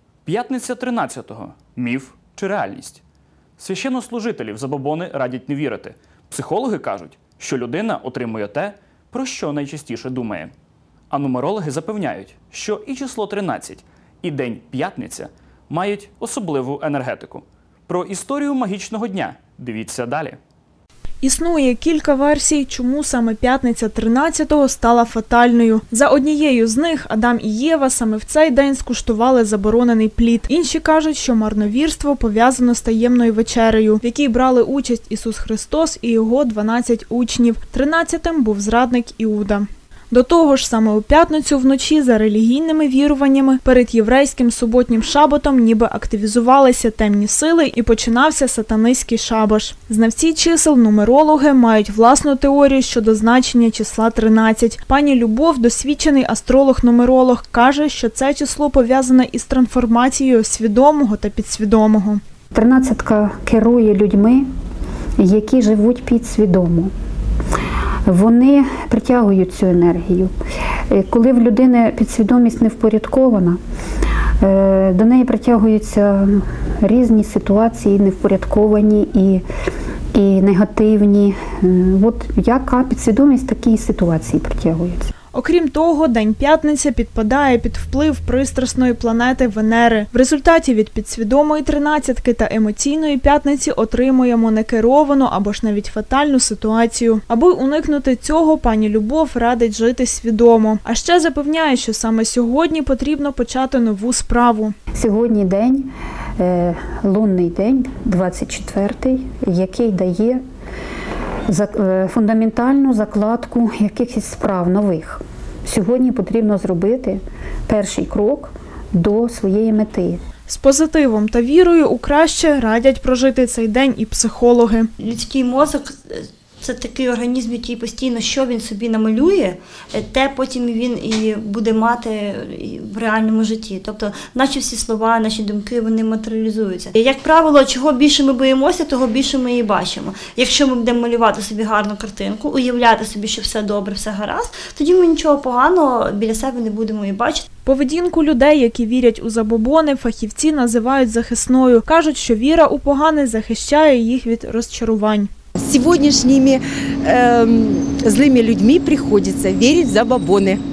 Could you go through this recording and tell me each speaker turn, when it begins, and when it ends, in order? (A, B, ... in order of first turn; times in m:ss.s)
0:00.2-0:03.0 A
0:03.6-0:10.5 A
0:11.1-0:20.4 A
0:21.2-1:02.2 B
1:02.5-1:04.4 C
1:05.2-1:06.9 C
1:08.1-1:10.3 C
1:10.9-1:13.6 C
1:14.4-1:19.4 C
1:20.1-1:25.1 C
1:25.3-1:44.7 B
1:44.9-1:50.4 C
1:51.5-2:00.2 C
2:00.5-2:04.9 B
2:05.0-2:27.4 D
2:27.7-2:35.3 B
2:35.6-2:40.6 E